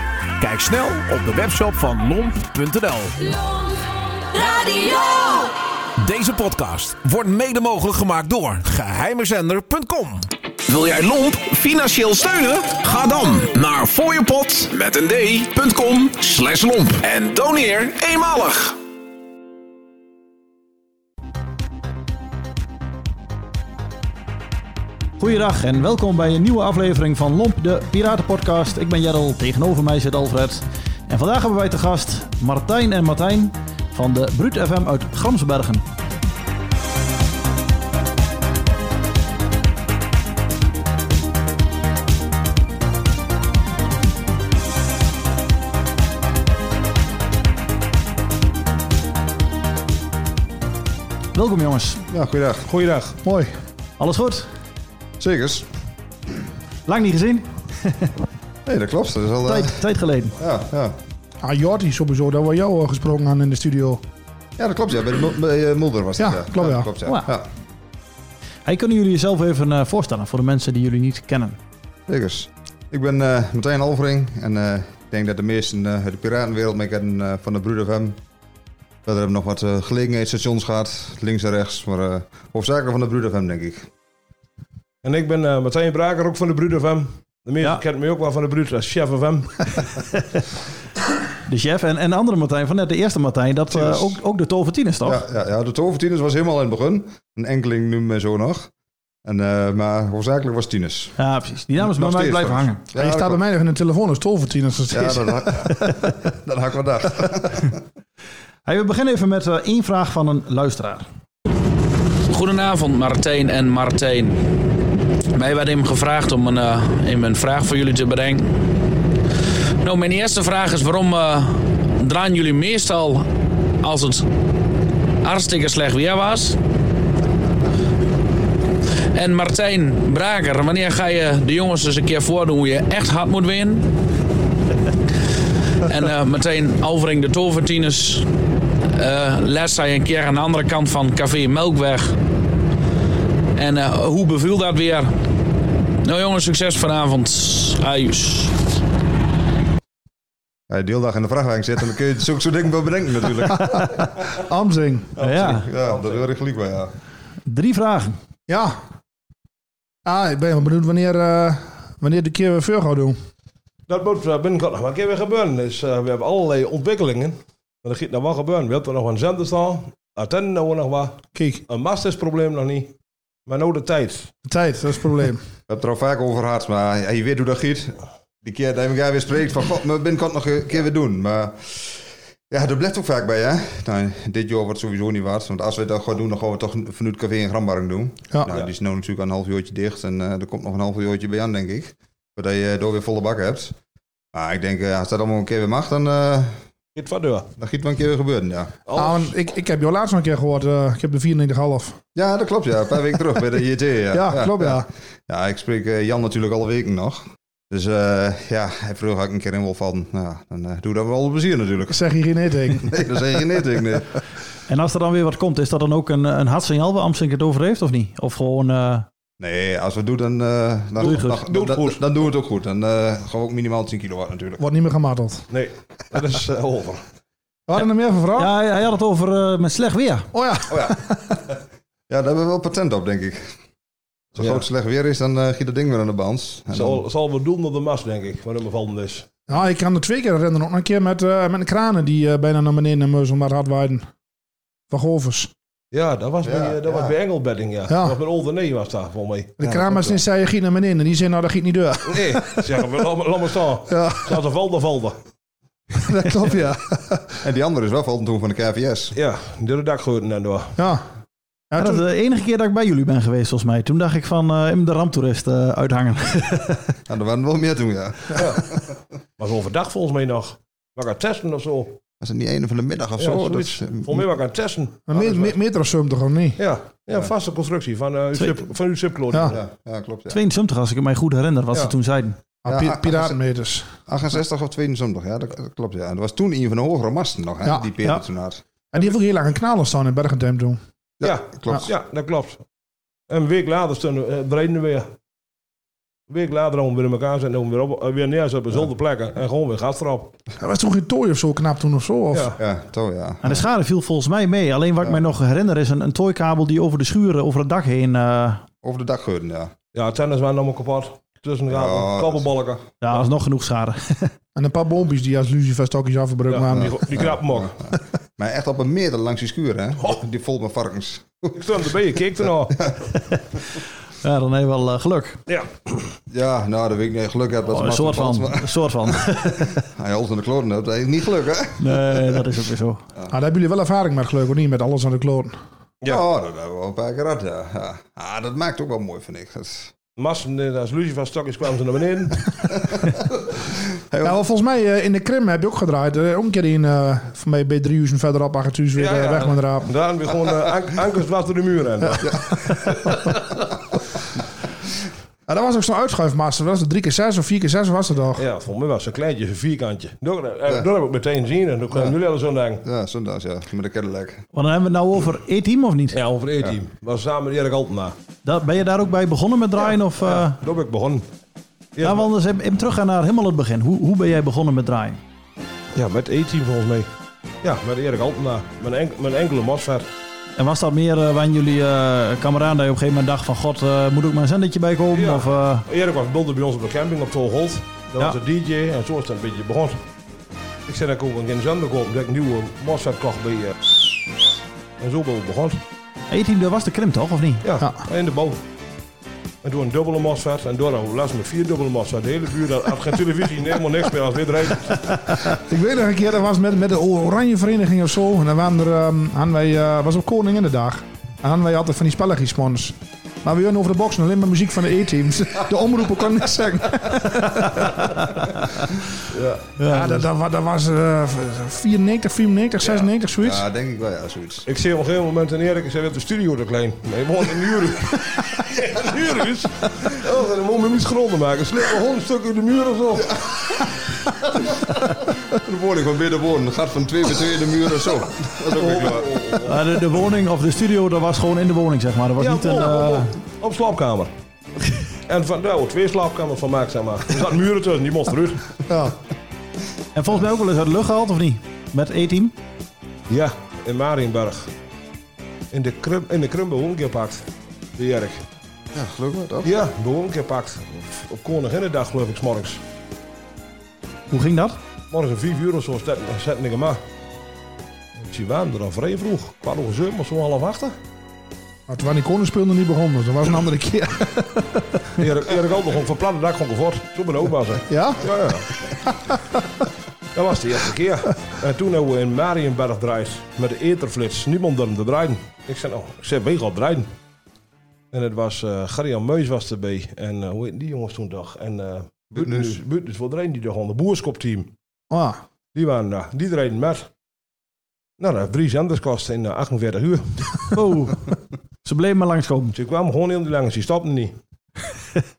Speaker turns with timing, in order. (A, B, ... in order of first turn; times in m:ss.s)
0:00.4-0:03.4 A
0:04.4-0:18.8 A
0:25.2-0:35.8 B
0:51.3-0:52.0 B
0:52.1-0:52.7 C
0:52.7-0:53.2 D
0:53.2-0:53.5 E
0:54.0-0:54.5 B
0:55.2-0:55.7 C
0:56.8-0:58.1 B
0:58.6-0:59.8 C
0:59.4-1:00.4 B
1:00.4-1:01.0 C
1:01.4-1:04.0 E
1:04.6-1:07.5 C
1:06.2-1:06.9 E
1:07.0-1:07.3 B
1:08.6-1:11.6 B
1:12.1-1:18.2 C
1:19.0-1:23.9 C
1:25.0-1:29.6 D
1:31.4-1:35.2 B
1:33.8-1:34.0 C
1:35.0-1:38.7 C
1:39.2-1:41.1 C
1:41.2-1:42.8 B
1:41.8-1:43.4 C
1:43.0-1:45.4 E
1:44.9-1:47.8 C
1:48.6-1:51.0 B
1:52.3-1:54.4 F
1:55.3-1:58.5 F
1:59.8-2:03.2 F
2:03.8-2:04.3 F
2:05.2-2:06.6 F
2:09.1-2:13.9 F
2:15.8-2:18.3 F
2:18.9-2:22.2 F
2:23.6-2:25.1 F
2:26.0-2:28.5 F
2:30.7-2:34.1 C
2:33.6-2:35.1 E
2:35.2-2:35.6 B
2:35.2-2:36.3 D
2:35.4-2:36.9 C
2:37.4-2:38.2 B
2:38.5-2:38.8 E
2:40.0-2:43.2 E
2:43.9-2:52.9 D
2:51.3-2:51.6 E
2:53.4-2:54.3 D
2:54.5-2:55.4 E
2:55.7-3:13.7 C
3:14.3-3:16.6 C
3:17.0-3:17.5 D
3:17.6-3:18.7 C
3:18.8-3:19.4 D
3:18.9-3:22.0 E
3:22.1-3:32.0 C
3:24.1-3:24.8 E
3:31.9-3:32.9 E
3:32.7-3:34.2 C
3:34.7-3:39.1 B
3:39.4-3:44.6 C
3:41.0-3:42.0 D
3:41.0-3:41.4 B
3:44.6-3:45.4 E
3:45.5-3:47.0 D
3:47.7-3:48.5 E
3:48.4-3:50.3 B
3:50.3-3:51.3 E
3:50.7-3:51.0 C
3:52.1-3:53.5 C
3:54.3-3:57.0 C
3:56.7-3:59.2 D
3:59.5-4:04.1 E
4:04.9-4:05.5 E
4:05.9-4:10.2 D
4:06.4-4:07.2 C
4:07.9-4:08.2 E
4:09.6-4:12.6 E
4:12.1-4:15.2 D
4:13.9-4:14.4 E
4:16.0-4:17.3 E
4:17.4-4:19.2 C
4:19.1-4:20.8 D
4:20.8-4:21.0 E
4:21.7-4:22.0 E
4:21.8-4:26.9 B
4:27.1-4:28.9 C
4:28.3-4:28.6 D
4:29.4-4:32.0 D
4:32.2-4:34.3 C
4:33.2-4:35.6 D
4:35.1-4:36.6 E
4:36.6-4:39.6 D
4:39.4-4:40.4 C
4:40.3-4:42.4 B
4:42.6-4:43.9 E
4:42.7-4:43.4 C
4:44.0-4:48.6 C
4:48.9-4:50.8 E
4:51.2-4:51.9 C
4:51.2-4:52.6 D
4:53.3-4:55.1 D
4:56.3-5:00.3 D
5:00.6-5:02.5 E
5:02.3-5:02.6 D
5:02.6-5:03.6 C
5:03.4-5:08.6 B
5:08.8-5:09.7 C
5:09.9-5:12.8 D
5:11.7-5:12.5 C
5:13.0-5:14.3 B
5:14.6-5:17.0 E
5:16.5-5:17.8 D
5:16.7-5:21.6 C
5:21.5-5:22.8 D
5:22.7-5:23.0 C
5:24.2-5:25.4 B
5:26.3-5:32.3 C
5:27.7-5:29.8 B
5:31.8-5:33.0 B
5:33.3-5:35.5 E
5:36.0-5:39.9 C
5:40.2-5:42.5 D
5:44.0-5:44.4 C
5:44.2-5:49.9 E
5:48.9-5:52.3 D
5:52.2-5:52.8 C
5:55.5-5:58.4 E
5:58.3-6:02.8 D
6:02.8-6:04.4 C
6:04.5-6:06.2 B
6:06.1-6:08.2 D
6:08.4-6:10.6 B
6:10.2-6:11.2 D
6:12.0-6:12.3 D
6:12.0-6:15.2 B
6:15.9-6:17.1 D
6:17.6-6:20.1 D
6:20.6-6:25.8 B
6:25.1-6:30.0 D
6:30.9-6:33.8 D
6:35.0-6:35.8 D
6:36.3-6:37.6 B
6:37.6-6:38.6 D
6:39.6-6:45.1 D
6:45.5-6:58.0 E
6:59.3-7:00.1 D
6:59.8-7:00.2 B
6:59.9-7:03.6 E
7:02.8-7:03.1 D
7:03.4-7:04.7 C
7:04.7-7:13.8 D
7:15.5-7:19.5 C
7:18.7-7:19.8 D
7:19.6-7:23.3 B
7:22.4-7:24.3 D
7:25.3-7:28.7 D
7:28.9-7:29.1 E
7:30.1-7:32.5 B
7:33.3-7:34.7 D
7:35.7-7:38.4 D
7:38.9-7:39.8 C
7:39.6-7:42.8 D
7:44.3-7:44.8 B
7:45.1-7:47.0 D
7:48.2-7:51.0 D
7:51.9-7:55.0 E
7:55.2-7:58.7 D
7:57.9-7:58.2 E
7:59.3-7:59.6 E
8:00.3-8:07.1 D
8:08.1-8:14.7 D
8:12.3-8:12.8 C
8:15.1-8:15.4 E
8:15.7-8:17.1 D
8:18.2-8:20.7 D
8:20.7-8:21.3 B
8:21.8-8:22.7 B
8:22.7-8:24.3 D